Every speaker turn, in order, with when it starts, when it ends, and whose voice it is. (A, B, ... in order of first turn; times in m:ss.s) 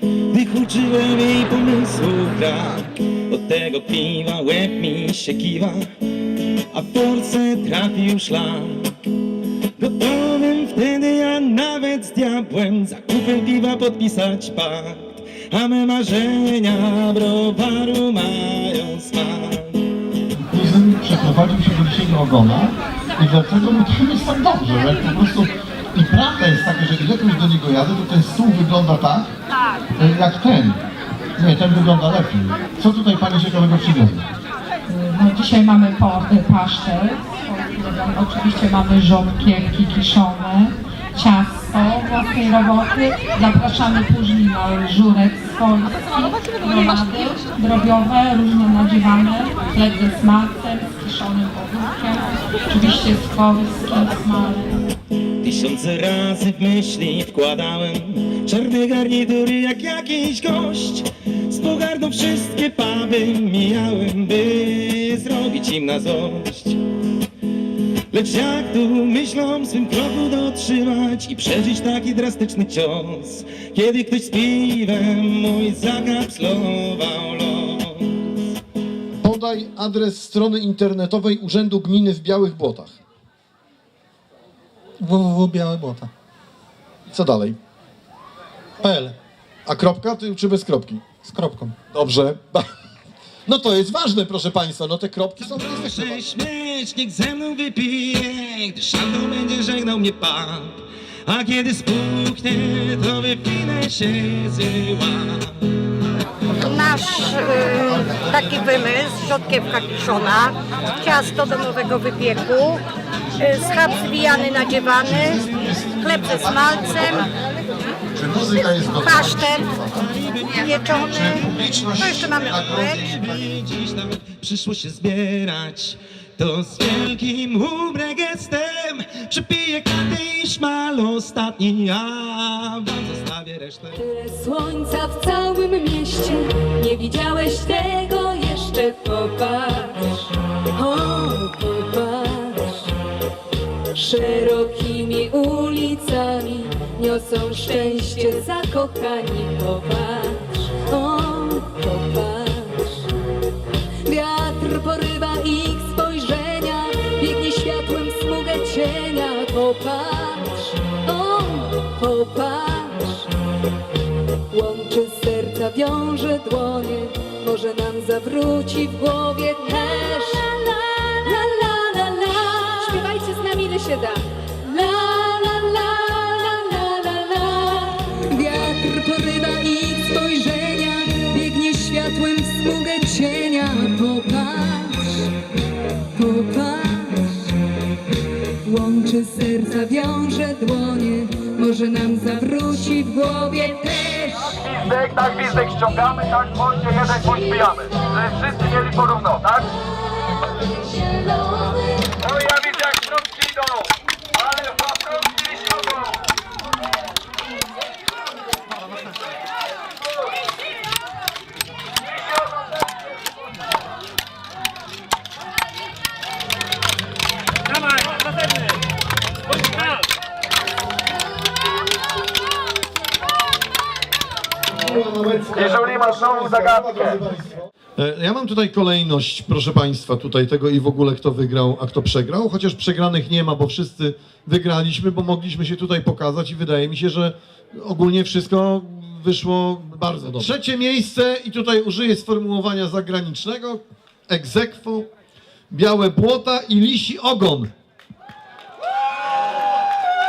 0:00.3-0:05.9 A
0:06.7-0:09.0 A
0:09.8-0:19.9 A
0:20.3-0:29.3 B
0:30.0-0:30.8 B
0:31.4-0:34.3 B
0:34.9-0:54.8 C
0:55.4-1:06.8 A
1:08.1-1:18.4 A
1:19.2-1:23.0 B
1:25.0-1:26.1 D
1:27.1-1:27.6 B
1:28.8-1:29.2 D
1:29.7-1:31.1 B
1:31.2-1:31.8 D
1:31.9-1:32.7 B
1:33.5-1:36.3 B
1:35.4-1:45.8 A
1:46.6-1:52.8 E
1:53.4-1:57.3 E
1:55.0-1:57.3 B
1:58.2-2:00.1 B
1:59.0-1:59.7 E
2:00.5-2:03.0 E
2:01.0-2:02.9 B
2:02.3-2:14.0 A
2:14.0-2:22.9 F
2:23.9-2:33.1 F
2:34.0-2:43.3 F
2:44.5-3:05.3 F
3:06.2-3:07.6 F
3:08.6-3:14.7 F
3:14.7-3:19.7 G
3:20.4-3:22.1 F
3:22.2-3:23.9 G
3:24.4-3:26.1 G
3:32.4-3:32.8 G
3:44.8-4:05.1 B
3:45.7-3:47.0 G
4:05.7-4:07.7 B